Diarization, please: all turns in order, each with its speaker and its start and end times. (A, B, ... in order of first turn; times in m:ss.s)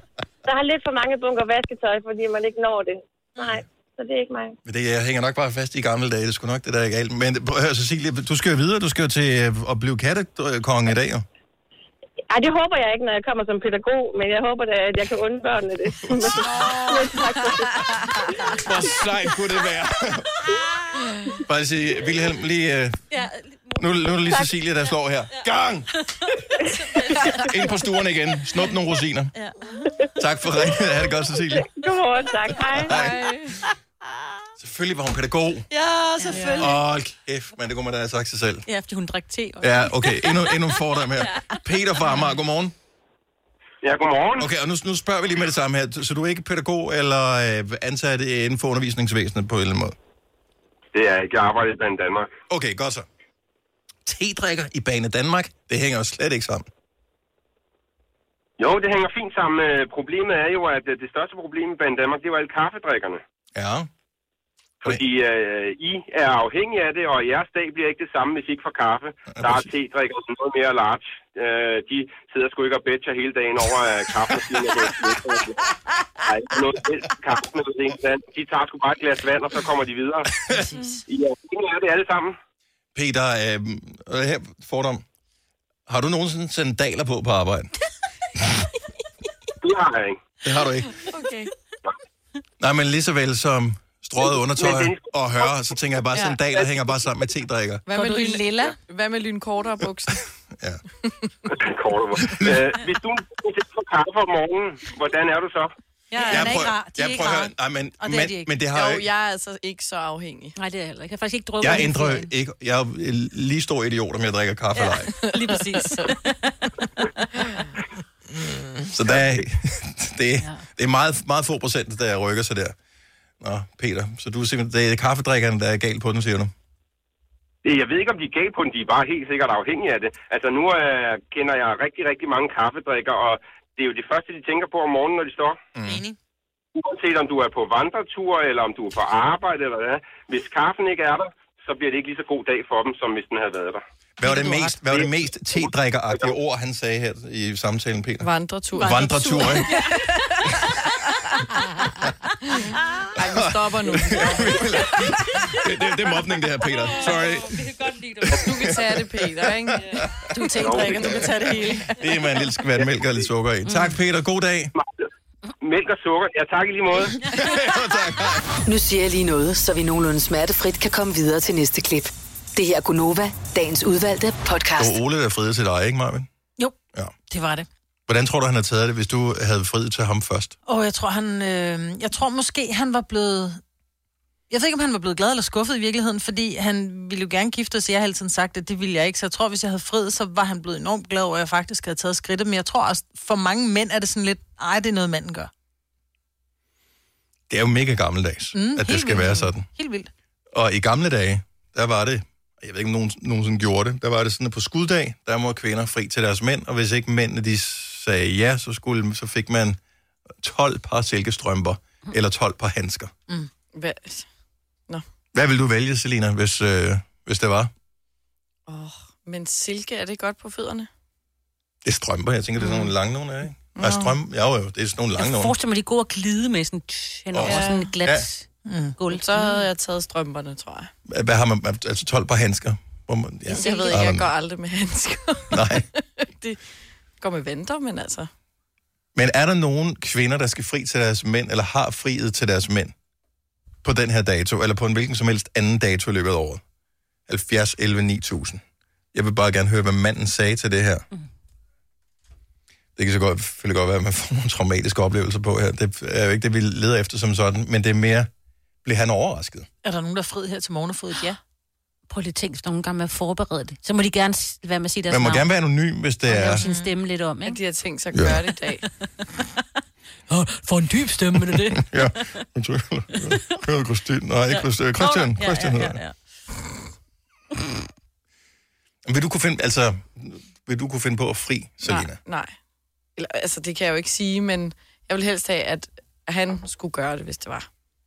0:00.4-0:04.6 A
0:04.6-0:11.2 B
0:12.3-0:17.8 A
0:16.0-0:16.5 B
0:16.4-0:17.4 C
0:18.6-0:20.2 B
0:21.4-0:23.0 B
0:23.1-0:23.8 D
0:23.8-0:25.9 B
0:26.8-0:27.4 D
0:27.4-0:29.3 B
0:30.2-0:31.7 B
0:31.4-0:33.0 A
0:32.6-0:33.2 B
0:32.8-0:33.6 C
0:34.6-0:35.7 B
0:35.7-0:36.8 D
0:36.3-0:36.7 C
0:36.6-0:38.6 B
0:38.7-0:40.6 D
0:39.6-0:42.7 B
0:41.2-0:41.5 D
0:43.8-0:44.2 E
0:44.4-0:49.9 B
0:50.9-0:52.2 E
0:52.5-0:53.0 B
0:54.0-0:56.7 B
0:58.6-1:03.2 E
1:03.5-1:03.9 B
1:04.8-1:15.5 E
1:09.3-1:09.7 B
1:16.3-1:20.2 E
1:21.1-1:22.3 E
1:22.9-1:25.0 B
1:25.9-1:27.7 B
1:29.6-1:30.2 E
1:30.4-1:31.0 B
1:31.0-1:31.5 C
1:32.6-1:37.8 B
1:34.6-1:35.0 E
1:36.1-1:36.6 C
1:37.9-1:40.2 C
1:37.9-1:38.8 F
1:40.6-1:40.8 B
1:41.5-1:45.7 E
1:42.2-1:42.6 B
1:46.1-1:48.5 F
1:46.3-1:49.0 B
1:48.7-1:50.5 C
1:50.6-1:52.3 D
1:51.6-1:55.1 B
1:54.8-1:56.7 D
1:55.4-1:56.1 C
1:58.9-2:02.8 B
2:03.4-2:06.5 B
2:07.6-2:15.5 E
2:15.7-2:16.0 B
2:15.9-2:16.2 F
2:16.8-2:23.8 E
2:24.2-2:29.7 B
2:24.2-2:24.8 F
2:28.2-2:30.7 C
2:28.8-2:29.7 F
2:32.4-2:35.1 C
2:33.2-2:37.6 B
2:38.2-2:39.0 B
2:38.3-2:40.0 C
2:39.8-2:40.1 B
2:40.3-2:41.9 F
2:40.6-2:41.0 E
2:40.6-2:41.1 C
2:40.9-2:44.7 B
2:45.6-2:46.9 E
2:47.2-2:48.5 B
2:48.6-2:55.0 G
2:54.8-2:56.3 B
2:57.3-2:57.7 F
2:58.1-3:00.5 B
3:00.7-3:03.6 F
3:04.5-3:15.5 F
3:17.5-3:19.6 B
3:18.5-3:20.1 F
3:20.5-3:29.8 B
3:30.4-3:33.1 B
3:33.7-3:34.3 C
3:35.3-3:37.7 B
3:38.7-3:40.9 C
3:41.8-3:45.6 B
3:43.8-3:44.1 C
3:45.2-3:49.3 D
3:47.3-3:48.3 B
3:47.4-3:47.9 C
3:48.6-3:49.0 F
3:49.1-3:50.9 C
3:51.1-3:54.3 B
3:53.5-3:56.6 C
3:53.5-3:54.0 D
3:55.5-3:55.9 B
3:57.2-3:58.3 C
3:59.1-4:02.9 B
4:03.8-4:06.6 B
4:07.3-4:08.6 B
4:09.1-4:11.0 B
4:13.0-4:18.3 B
4:18.8-4:19.7 B
4:19.8-4:21.4 F
4:22.1-4:25.5 D
4:25.1-4:26.6 B
4:26.3-4:27.6 D
4:27.4-4:28.8 C
4:28.1-4:28.4 B
4:30.3-4:31.7 F
4:31.5-4:36.0 B
4:34.5-4:36.1 D
4:39.0-4:42.2 B
4:41.8-4:42.6 C
4:43.2-4:47.7 C